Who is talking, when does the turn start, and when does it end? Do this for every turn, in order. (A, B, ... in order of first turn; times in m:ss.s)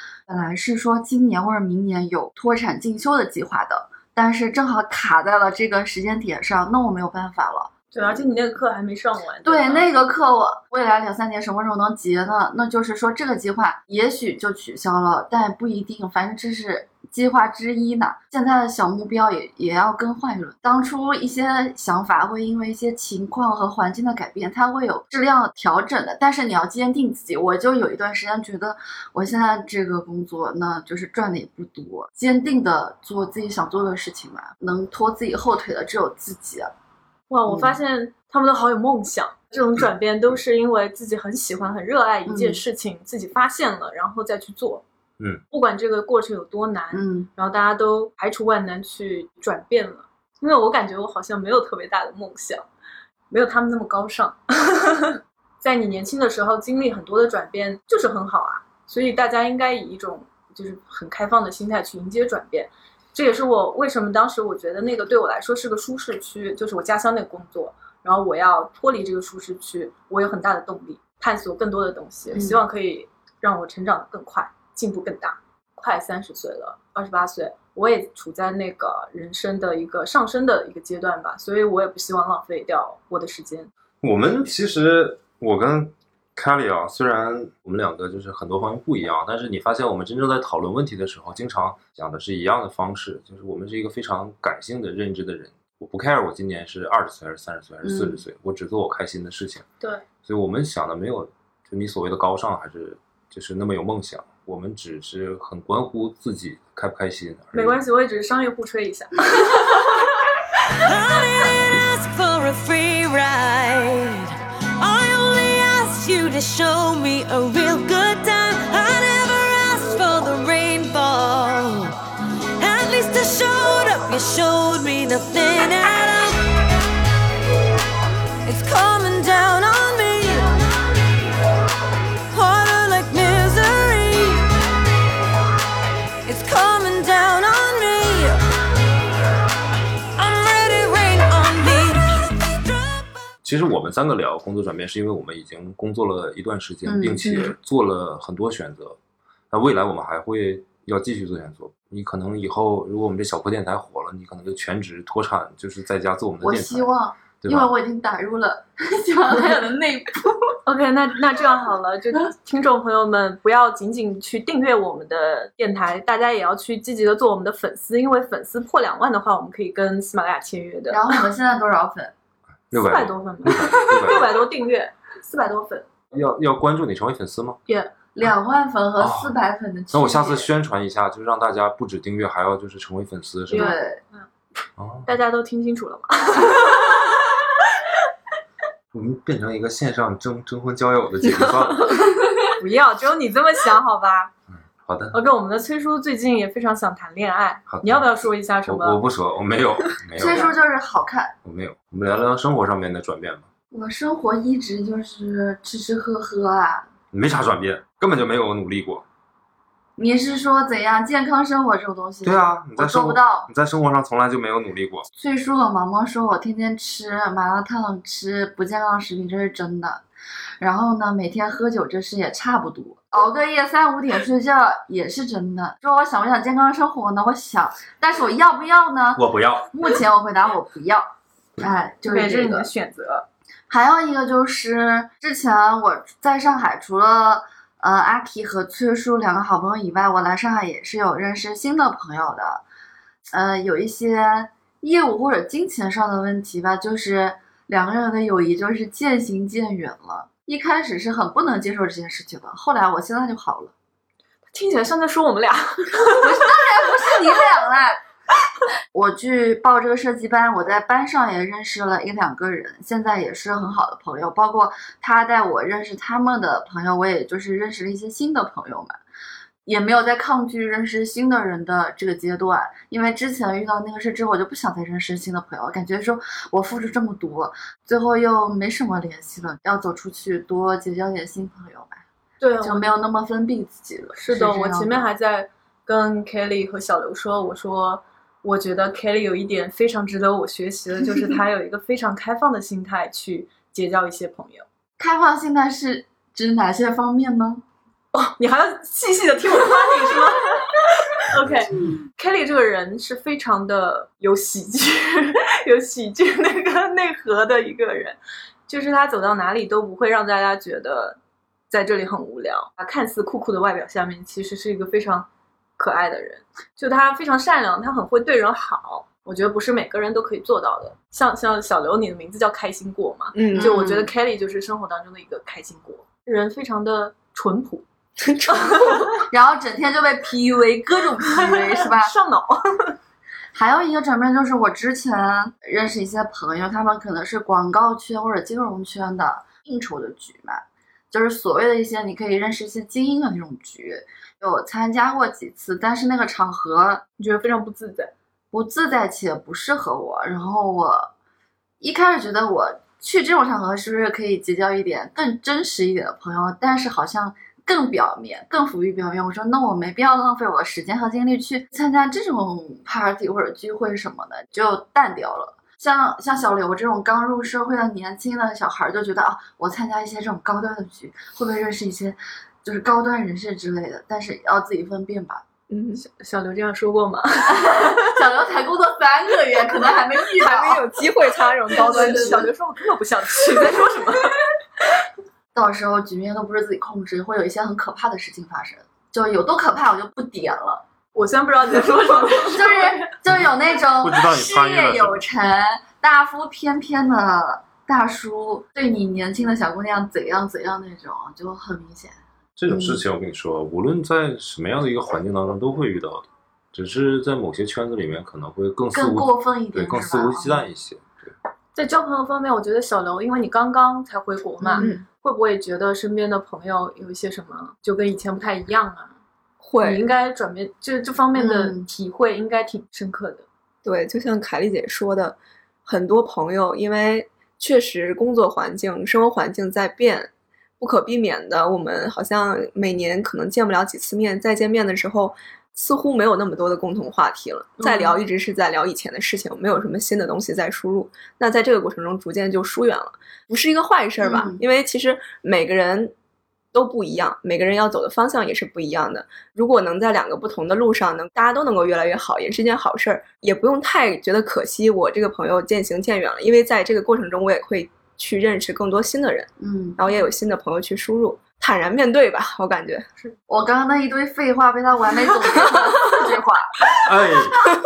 0:00.3-0:07.7 A
0:07.9-0:09.9 B
0:09.4-0:36.7 A
0:37.3-0:44.8 B
0:37.5-0:37.8 A
0:42.2-0:42.6 A
0:45.5-0:52.6 B
0:46.9-0:47.3 A
0:53.3-1:23.7 B
1:12.3-1:12.6 A
1:24.0-1:39.6 C
1:37.8-1:38.2 A
1:40.2-1:47.8 C
1:47.5-1:50.1 B
1:50.7-2:02.0 D
2:02.6-2:06.4 D
2:08.4-2:10.6 D
2:12.3-2:14.5 D
2:16.2-2:18.4 D
2:20.2-2:23.0 D
2:23.4-2:29.0 C
2:26.8-2:27.5 A
2:29.5-2:37.7 C
2:36.4-2:40.4 A
2:40.6-2:51.2 B
2:50.9-2:52.1 A
2:52.7-2:54.4 C
2:52.8-2:55.9 B
2:56.1-2:57.6 C
2:58.1-3:00.5 A
2:59.0-2:59.4 C
2:59.9-3:03.8 C
3:03.5-3:04.0 A
3:03.5-3:04.2 B
3:04.8-3:05.1 C
3:05.0-3:07.1 B
3:08.9-3:12.1 C
3:12.5-3:14.3 B
3:14.7-3:15.2 C
3:15.1-3:19.0 B
3:17.7-3:18.0 C
3:18.6-3:20.5 C
3:20.2-3:21.3 A
3:20.2-3:20.5 B
3:21.4-3:23.4 C
3:23.7-3:26.9 A
3:27.1-3:29.0 C
3:30.0-3:33.5 A
3:32.2-3:35.1 C
3:35.1-3:40.0 A
3:40.6-3:51.0 A
3:49.2-3:49.7 C
3:51.6-3:52.7 A
3:52.1-3:53.2 B
3:53.7-4:02.6 A
4:03.3-4:13.7 A
4:14.5-4:16.5 B
4:16.1-4:18.0 A
4:18.9-4:29.0 A
4:29.6-4:42.0 A
4:42.4-4:42.9 B
4:42.6-4:45.1 A
4:44.2-4:54.6 B
4:55.0-4:57.6 A
4:58.1-5:08.2 B
5:08.7-5:11.2 B
5:11.7-5:15.3 B
5:15.8-5:27.8 B
5:23.3-5:23.8 E
5:23.5-5:24.1 A
5:28.2-5:29.1 E
5:28.5-5:29.2 B
5:29.2-5:32.1 A
5:31.3-5:32.9 B
5:33.5-5:47.0 A
5:47.2-5:48.1 B
5:48.5-5:51.1 A
5:51.8-6:15.4 A
6:15.7-6:16.0 E
6:16.0-6:18.1 B
6:17.5-6:20.8 A
6:20.4-6:22.5 E
6:21.7-6:24.4 B
6:21.7-6:22.5 A
6:25.5-6:30.8 A
6:31.1-6:33.0 B
6:32.4-6:43.0 A
6:33.9-6:35.3 C
6:42.6-6:51.3 C
6:48.9-6:50.6 A
6:51.7-6:59.1 B
6:54.6-6:55.0 A
6:59.6-7:00.1 E
6:59.8-7:03.4 B
7:01.4-7:01.9 A
7:03.8-7:26.1 E
7:17.8-7:18.2 A
7:24.2-7:24.6 A
7:26.7-7:43.1 E
7:39.6-7:40.0 A
7:43.5-7:46.9 A
7:47.0-7:47.6 C